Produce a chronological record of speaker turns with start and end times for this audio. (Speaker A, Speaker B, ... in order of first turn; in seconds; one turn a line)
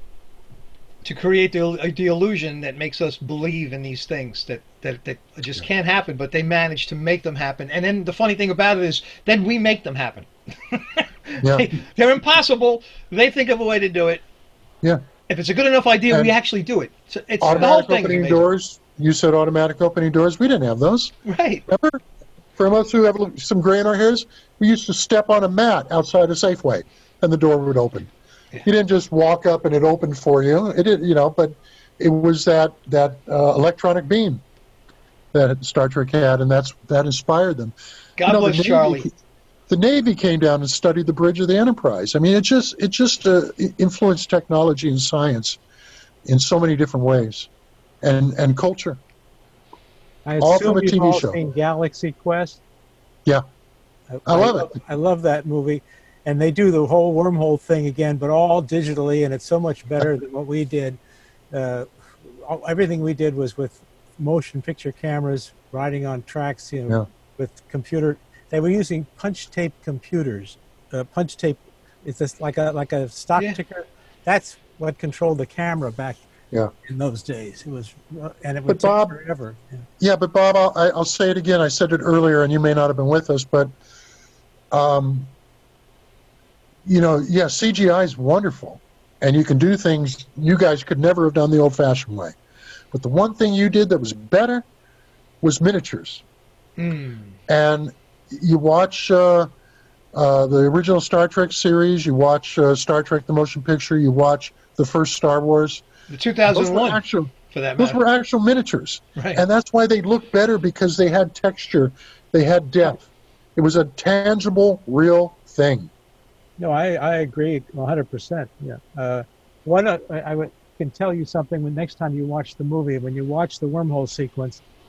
Speaker A: 1.0-14.2
Speaker B: 11.4-11.7
Speaker A: 15.3-18.4
Speaker B: 17.4-21.1
Speaker A: 21.2-21.6
Speaker B: 21.7-22.0
Speaker B: 22.6-28.1
Speaker B: 28.6-34.4
Speaker B: 35.3-39.1
Speaker A: 38.2-39.1
Speaker B: 39.7-45.6
Speaker B: 46.2-47.5
Speaker B: 48.0-49.0
Speaker C: 50.2-52.6
Speaker B: 50.4-51.4
Speaker C: 54.1-61.0
Speaker B: 54.2-54.7
Speaker C: 61.5-76.2
Speaker C: 76.8-79.8
Speaker B: 78.7-79.2
Speaker B: 80.0-83.7
Speaker B: 84.7-85.3
Speaker B: 86.8-92.3
Speaker B: 92.9-94.7
Speaker B: 95.4-96.2
Speaker A: 96.8-97.4
Speaker B: 97.5-99.5
Speaker B: 100.1-105.8
Speaker A: 106.1-108.0
Speaker B: 106.5-115.9
Speaker A: 109.2-109.4
Speaker C: 116.6-124.6